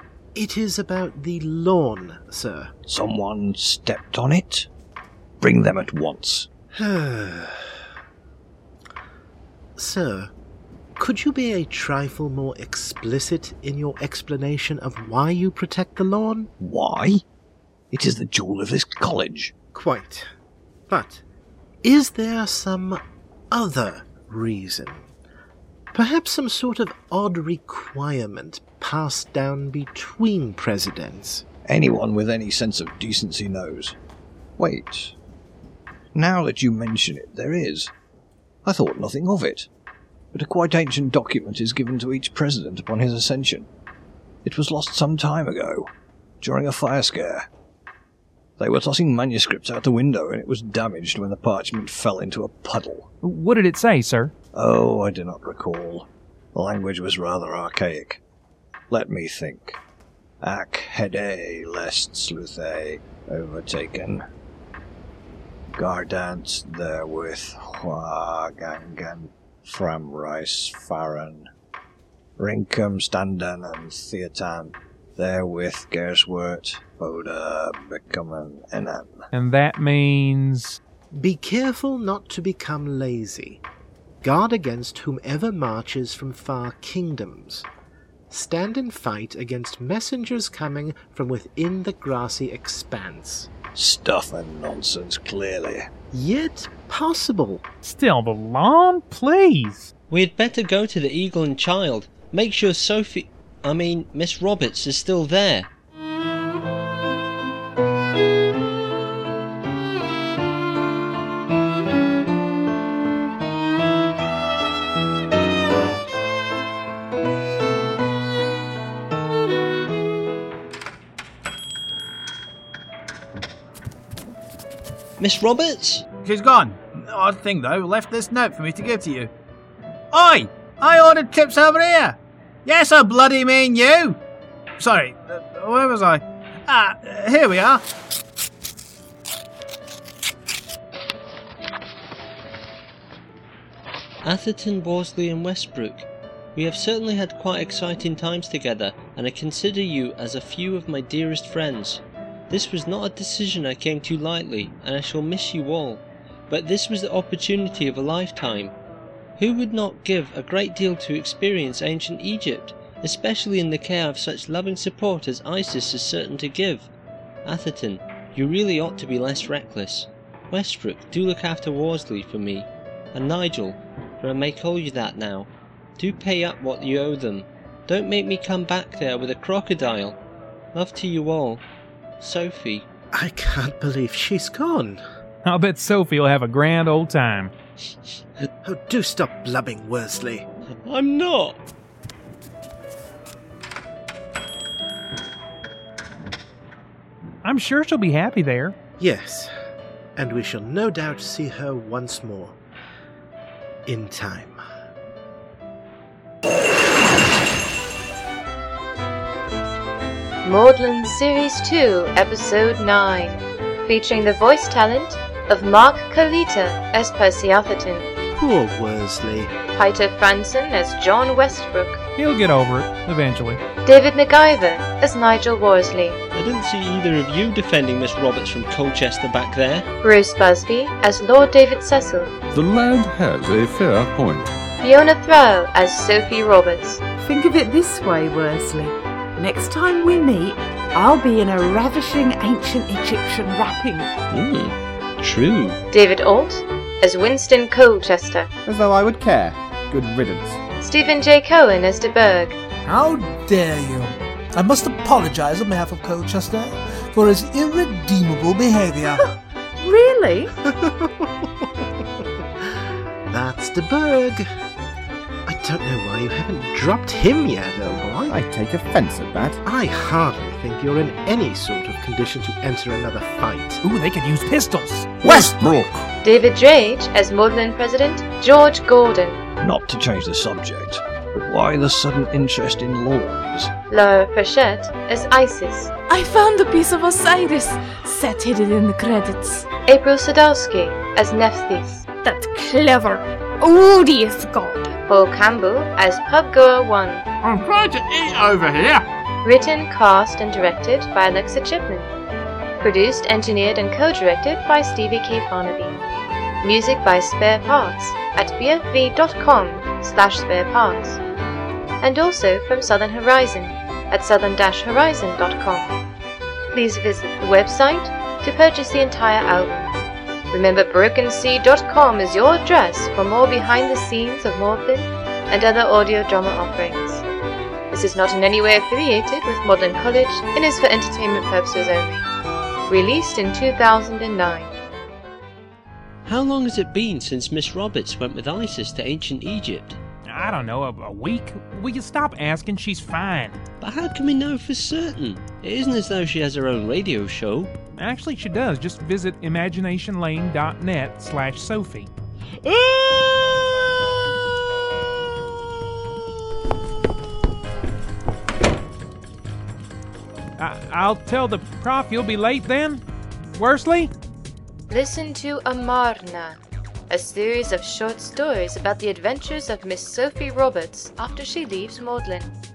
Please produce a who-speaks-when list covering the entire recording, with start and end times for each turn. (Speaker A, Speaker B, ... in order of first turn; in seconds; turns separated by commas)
Speaker A: 0.3-2.7, Speaker B: 2.9-4.7, Speaker B: 5.4-6.5, Speaker A: 6.7-7.6, Speaker A: 9.8-10.3, Speaker A: 11.0-16.5, Speaker B: 16.6-17.2, Speaker B: 17.9-19.5, Speaker A: 19.7-20.3, Speaker A: 20.9-21.2, Speaker A: 21.8-23.0, Speaker A: 23.5-25.1, Speaker A: 25.9-31.4, Speaker B: 31.7-34.0, Speaker B: 34.6-35.1, Speaker B: 36.1-37.9, Speaker B: 38.7-39.7, Speaker B: 40.3-43.7, Speaker B: 44.4-47.5, Speaker B: 48.6-53.1, Speaker C: 53.2-54.3, Speaker B: 54.5-58.2, Speaker B: 58.9-59.8, Speaker B: 60.4-64.2, Speaker B: 65.8-71.5, Speaker B: 72.4-79.2, Speaker C: 79.3-80.8, Speaker A: 81.1-83.6, Speaker A: 84.2-87.7, Speaker A: 88.3-93.5, Speaker B: 93.8-95.9, Speaker A: 96.1-97.6, Speaker C: 97.8-99.9, Speaker D: 100.1-105.7, Speaker D: 125.2-126.0, Speaker E: 126.2-129.3, Speaker E: 130.1-134.2, Speaker E: 134.8-137.8, Speaker D: 144.2-158.8, Speaker D: 159.4-166.9, Speaker D: 167.4-180.2, Speaker D: 180.7-181.6, Speaker D: 182.2-182.9, Speaker A: 183.1-185.0, Speaker C: 185.4-187.5, Speaker A: 188.6-190.5, Speaker D: 190.9-191.6, Speaker C: 197.4-198.8, Speaker A: 199.0-199.5, Speaker A: 200.2-202.6, Speaker A: 203.9-204.6, Speaker F: 210.4-218.1, Speaker A: 218.3-219.6, Speaker F: 219.8-221.9, Speaker C: 222.2-223.6, Speaker F: 223.9-226.2, Speaker D: 226.3-229.9, Speaker F: 230.0-232.3, Speaker G: 232.5-234.5, Speaker F: 234.8-237.0, Speaker H: 237.2-244.1, Speaker D: 244.3-245.8, Speaker F: 245.9-248.5, Speaker I: 248.7-250.6, Speaker F: 250.8-252.6, Speaker J: 252.9-259.1, Speaker H: 259.1-260.5, Speaker A: 260.6-261.5, Speaker A: 263.3-264.5, Speaker A: 265.5-268.4, Speaker I: 268.3-269.6, Speaker A: 269.6-273.8, Speaker C: 273.8-275.1, Speaker I: 275.2-276.0, Speaker F: 276.2-279.4, Speaker B: 279.6-283.7, Speaker F: 283.9-285.9, Speaker K: 286.1-289.7, Speaker F: 289.9-292.0, Speaker L: 292.2-294.9, Speaker F: 295.1-297.2, Speaker E: 297.4-299.0, Speaker F: 299.4-302.1, Speaker F: 302.8-306.0, Speaker F: 306.6-311.2, Speaker F: 312.0-315.9, Speaker F: 316.7-319.9, Speaker F: 320.5-327.2, Speaker F: 327.9-332.3, Speaker F: 332.9-334.7, Speaker D: 336.3-340.0, Speaker C: 340.3-343.6, Speaker D: 343.8-347.7, Speaker C: 348.0-352.1, Speaker C: 360.6-364.1, Speaker F: 364.9-366.6, Speaker F: 367.1-372.5